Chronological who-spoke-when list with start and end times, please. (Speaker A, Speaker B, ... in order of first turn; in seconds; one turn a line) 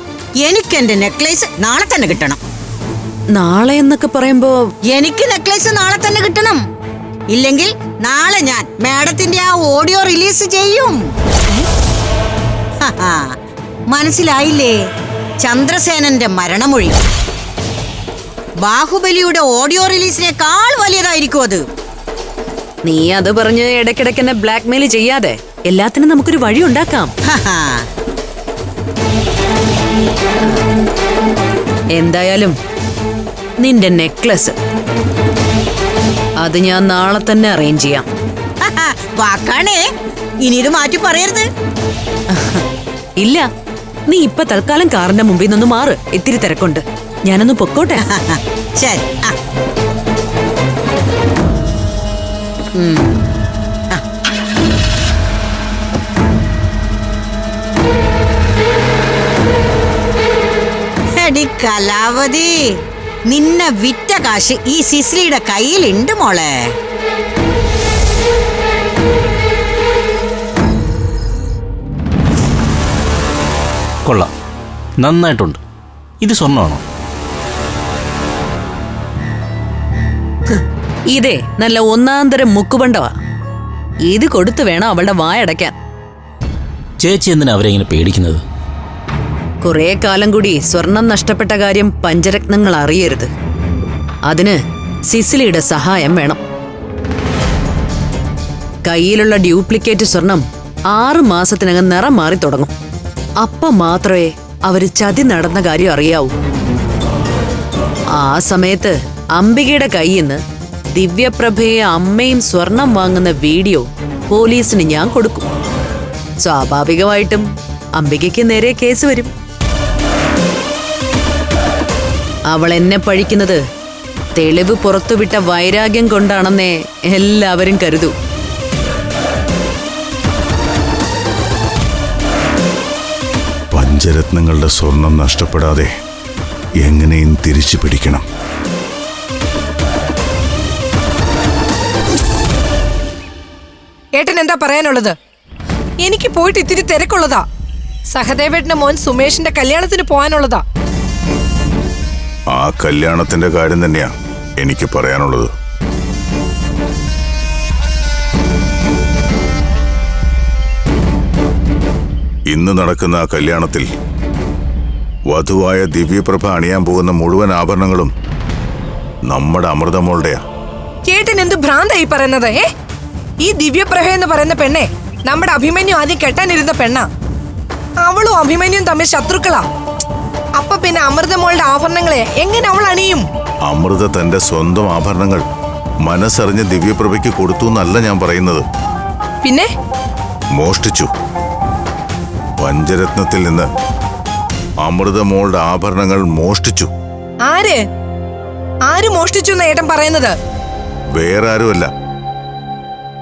Speaker A: 0.4-2.4
Speaker B: 3.3-4.6
Speaker A: 4.9-6.6
Speaker A: 7.3-11.0
Speaker A: 12.8-13.3
Speaker A: 13.9-14.8
Speaker A: 15.4-17.0
Speaker A: 18.6-21.6
Speaker B: 22.8-27.1
Speaker A: 27.3-27.9
Speaker B: 31.9-32.5
Speaker B: 33.6-34.5
Speaker B: 36.4-38.1
Speaker A: 38.6-39.9
Speaker A: 40.4-41.5
Speaker B: 43.2-43.5
Speaker B: 44.1-48.0
Speaker A: 48.1-49.4
Speaker A: 52.8-53.1
Speaker A: 61.2-62.5
Speaker A: 63.3-66.7
Speaker C: 75.0-75.6
Speaker C: 76.2-76.8
Speaker B: 81.1-83.1
Speaker B: 84.0-85.7
Speaker C: 87.0-88.4
Speaker B: 89.6-93.3
Speaker B: 94.3-96.4
Speaker B: 98.9-102.7
Speaker B: 103.4-106.3
Speaker B: 108.1-110.4
Speaker B: 110.9-115.5
Speaker B: 116.4-119.3
Speaker B: 122.5-123.6
Speaker B: 124.4-128.1
Speaker D: 133.7-135.9
Speaker D: 136.8-138.2
Speaker E: 144.2-145.2
Speaker E: 146.0-147.4
Speaker E: 148.1-150.6
Speaker D: 152.5-155.5
Speaker D: 162.5-163.9
Speaker D: 165.3-168.1
Speaker D: 169.3-170.4
Speaker E: 171.1-172.7
Speaker E: 173.4-177.1
Speaker E: 178.0-179.6
Speaker E: 180.6-183.3
Speaker D: 183.7-185.4
Speaker D: 186.1-188.7
Speaker E: 189.4-189.7
Speaker D: 190.6-191.1
Speaker D: 192.6-193.7
Speaker D: 194.8-196.9
Speaker E: 197.4-197.8
Speaker E: 198.9-200.3
Speaker D: 201.2-201.9